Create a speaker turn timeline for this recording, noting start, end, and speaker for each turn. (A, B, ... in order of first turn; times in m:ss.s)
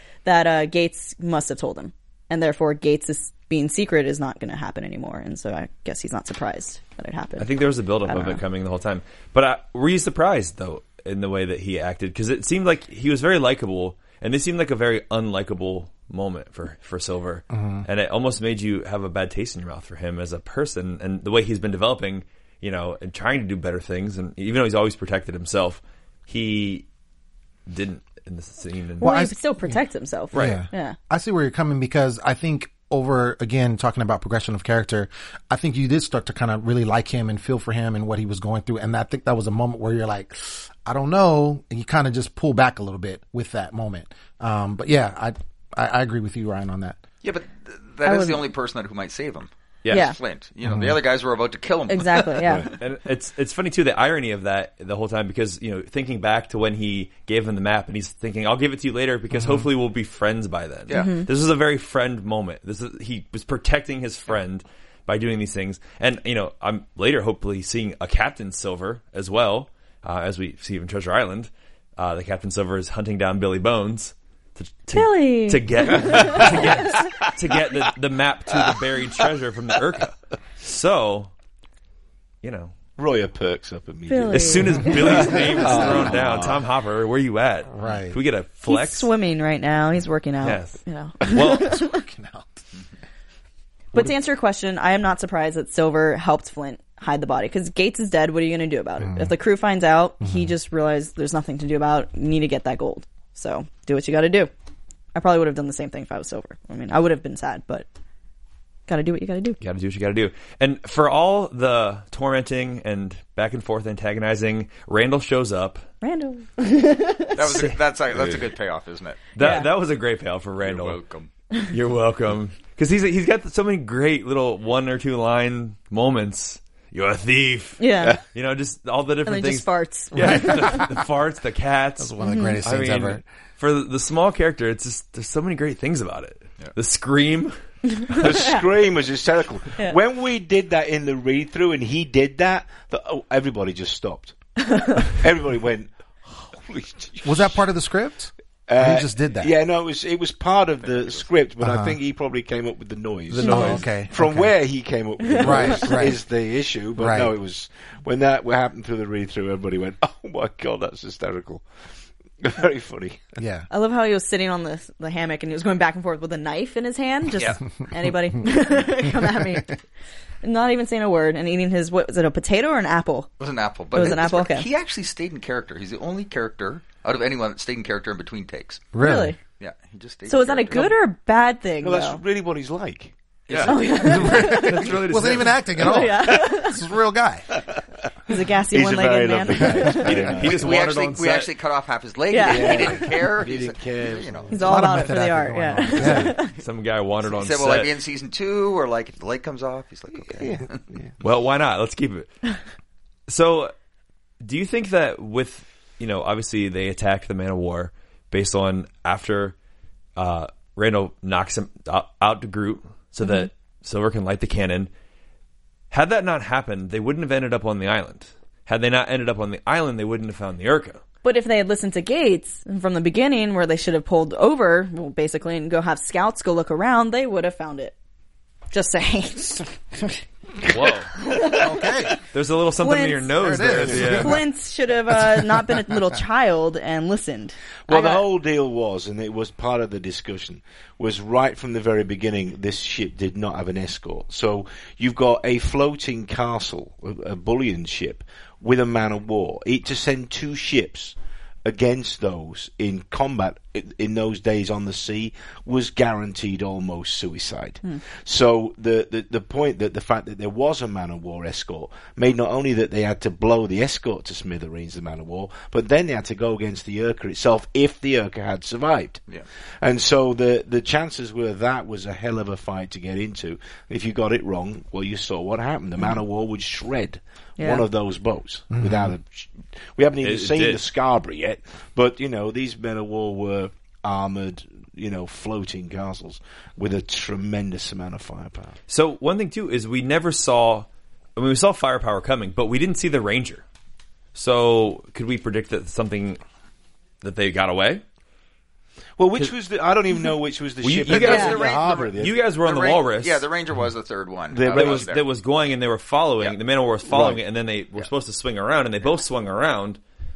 0:00.2-0:07.5 A
0:07.4-0:26.8 B
0:08.0-0:08.4 A
0:17.5-0:17.8 C
0:27.7-0:29.2 B
0:29.0-0:31.0 A
0:29.0-0:29.8 C
0:30.3-0:30.6 B
0:30.3-0:47.0 C
0:47.2-0:52.7 D
0:48.0-0:48.5 A
0:49.8-0:50.1 B
0:49.9-0:50.2 A
0:50.6-0:51.0 C
0:51.9-0:52.7 A
0:52.4-0:52.7 E
0:52.8-1:21.3 B
0:59.3-0:59.6 C
1:00.9-1:01.2 D
1:00.9-1:01.3 A
1:14.9-1:16.9 A
1:15.9-1:16.8 E
1:22.4-1:22.7 B
1:23.0-1:26.6 E
1:24.1-1:25.9 A
1:24.3-1:29.1 B
1:27.7-1:28.2 C
1:28.7-1:32.0 A
1:30.4-1:31.8 B
1:31.5-1:32.6 C
1:33.9-1:44.5 A
1:39.0-1:39.3 C
1:40.2-1:40.5 C
1:45.1-1:47.9 A
1:48.9-1:49.6 A
1:49.6-1:55.8 B
1:56.0-1:57.4 A
1:57.4-1:59.6 D
1:57.4-1:57.8 B
1:58.1-1:58.4 E
1:59.4-1:59.7 A
1:59.4-2:01.0 B
2:00.6-2:01.3 D
2:01.7-2:17.6 B
2:07.8-2:08.2 A
2:09.2-2:10.8 A
2:10.2-2:10.9 C
2:12.0-2:13.2 C
2:12.2-2:12.6 A
2:18.1-2:18.6 A
2:18.2-2:24.4 E
2:24.7-2:25.0 A
2:24.9-2:27.6 E
2:27.2-2:29.5 C
2:28.7-2:41.7 E
2:30.8-2:31.3 D
2:31.6-2:32.0 C
2:33.3-2:34.5 C
2:33.3-2:33.8 B
2:33.4-2:33.8 A
2:35.4-2:35.9 A
2:35.4-2:36.2 C
2:37.0-2:37.3 C
2:42.4-2:43.4 E
2:43.4-2:43.7 C
2:43.7-2:49.8 A
2:47.3-2:47.6 D
2:49.3-2:49.6 C
2:50.4-2:53.3 A
2:53.4-2:58.9 D
2:53.9-2:54.7 A
2:58.9-2:59.3 C
2:59.0-2:59.4 A
2:59.5-3:00.9 D
3:00.3-3:02.2 A
3:01.8-3:03.8 E
3:03.5-3:04.0 D
3:03.6-3:04.9 A
3:04.0-3:07.5 C
3:04.1-3:05.8 B
3:05.8-3:06.8 A
3:07.6-3:07.8 E
3:08.3-3:10.3 A
3:08.7-3:10.8 E
3:10.0-3:11.5 B
3:10.5-3:14.8 D
3:12.3-3:13.0 A
3:12.4-3:14.9 E
3:14.5-3:16.5 A
3:14.6-3:16.3 C
3:16.6-3:17.9 B
3:17.2-3:20.8 D
3:20.2-3:21.1 E
3:21.2-3:22.4 B
3:23.3-3:23.7 B
3:24.4-3:29.5 B
3:30.2-3:34.9 B
3:35.9-3:41.0 B
3:41.2-3:47.9 A
3:48.7-3:50.2 A
3:50.7-3:51.1 B
3:51.1-3:51.7 A
3:51.5-3:52.2 C
3:52.3-3:54.4 B
3:52.8-3:58.2 A
3:53.4-3:54.4 C
3:53.6-3:54.3 E
3:57.9-4:29.2 E
4:29.8-4:48.8 E
4:37.6-4:37.8 A
4:38.7-4:39.1 C
4:40.2-4:40.8 B
4:48.9-4:53.6 B
4:54.3-4:56.4 B
4:57.2-4:58.0 B
4:59.2-5:02.4 E
5:00.8-5:03.4 B
5:01.0-5:05.2 D
5:01.2-5:01.6 A
5:04.5-5:05.1 E
5:04.7-5:10.0 B
5:07.0-5:07.4 E